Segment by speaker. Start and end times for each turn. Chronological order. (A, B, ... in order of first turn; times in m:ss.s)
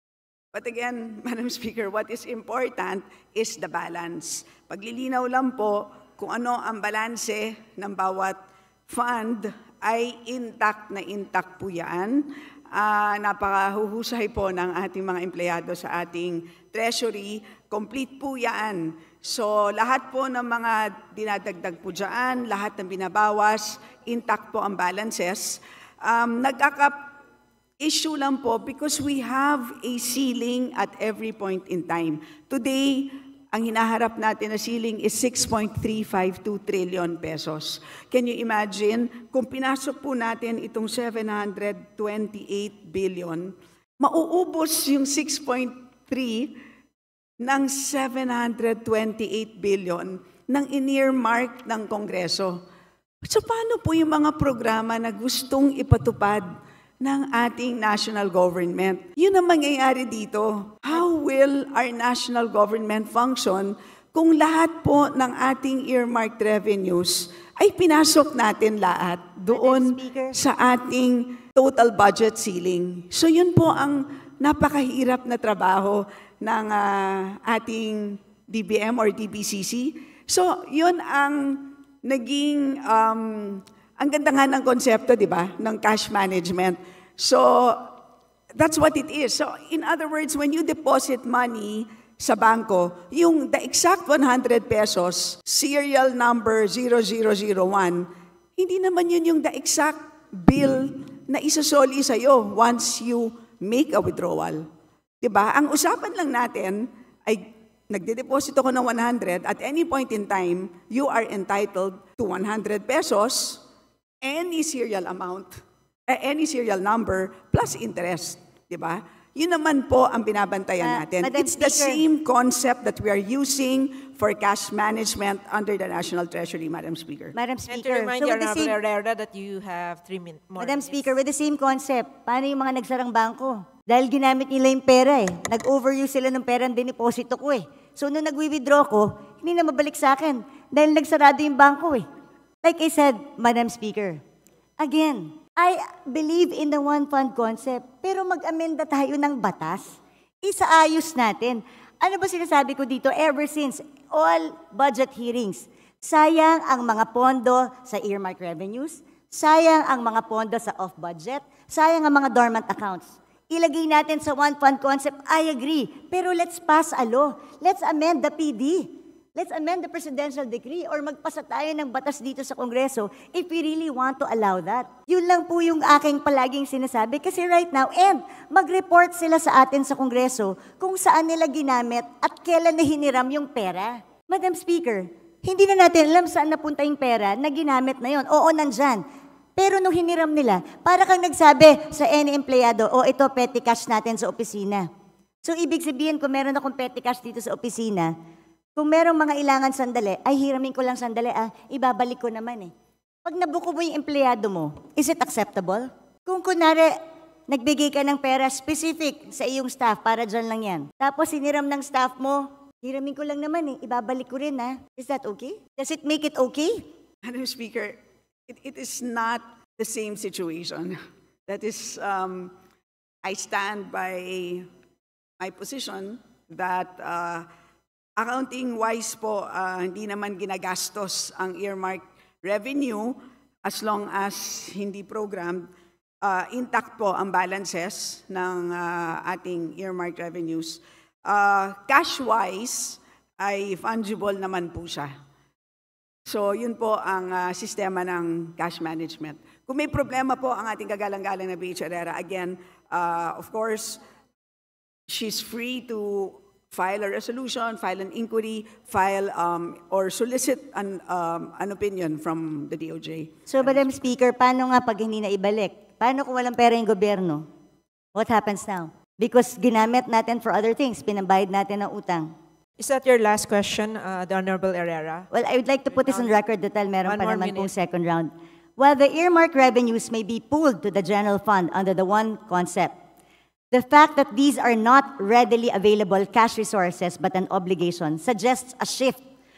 0:00.5-0:27.1 A
0:27.8-0:46.6 A
0:47.4-0:52.6 A
0:53.2-0:56.5 A
0:57.0-1:28.0 A
1:09.5-1:10.4 B
1:28.6-1:44.7 A
1:45.2-1:53.6 A
1:54.2-2:07.4 A
2:00.8-2:02.0 B
2:07.3-2:08.8 B
2:07.7-2:11.1 C
2:10.6-2:22.0 B
2:22.6-2:24.2 B
2:24.8-3:09.0 B
3:09.6-3:14.9 B
3:15.4-3:18.1 B
3:18.8-3:22.7 B
3:23.2-3:26.9 B
3:27.5-3:36.9 B
3:37.2-3:42.6 A
3:43.2-3:44.7 A
3:45.4-3:47.5 A
3:48.2-3:55.7 A
3:56.2-4:05.1 A
4:06.3-4:14.0 A
4:15.1-4:23.9 A
4:23.5-4:27.4 B
4:28.2-4:32.3 B
4:32.8-4:35.3 C
4:35.3-4:43.0 B
4:36.1-4:36.4 C
4:37.0-4:37.7 C
4:43.7-4:49.2 B